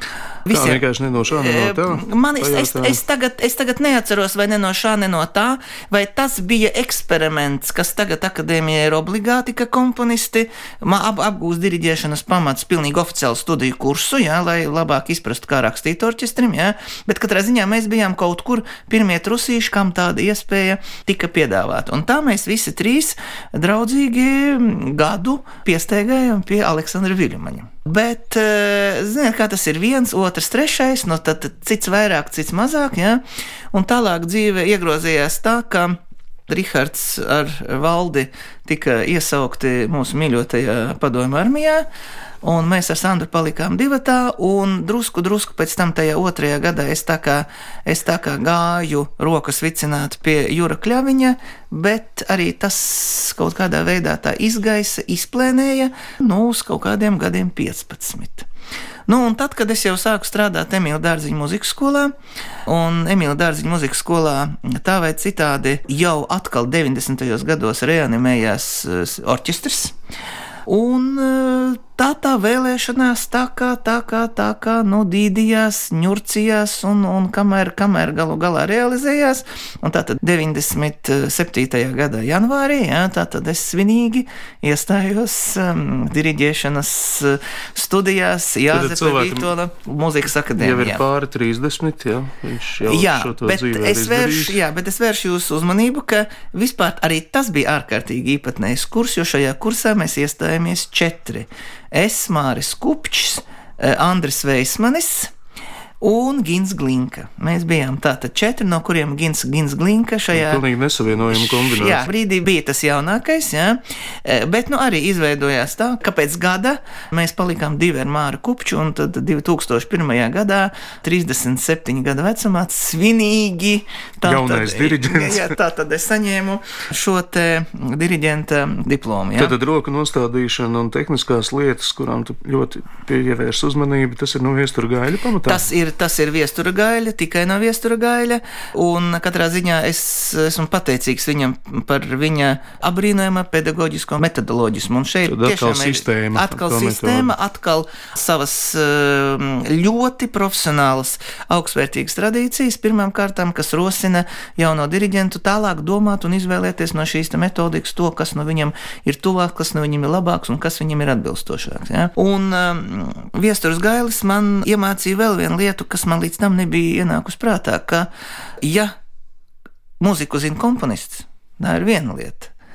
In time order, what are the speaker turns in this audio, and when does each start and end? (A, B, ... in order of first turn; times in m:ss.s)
0:00.4-0:41.9 A
0:00.5-0:03.0 B
0:42.4-0:58.5 A
0:59.1-1:02.1 A
1:02.7-1:10.0 A
1:10.7-1:31.0 A
1:28.7-1:29.5 B
1:30.6-1:34.6 B
1:32.8-1:45.3 A
1:46.0-1:50.6 A
1:50.3-1:52.0 B
1:51.3-2:09.5 A
2:04.2-2:05.6 B
2:09.4-2:15.7 B
2:15.4-2:48.1 A
2:25.2-2:27.3 B
2:48.6-2:48.9 A
2:50.0-2:52.5 A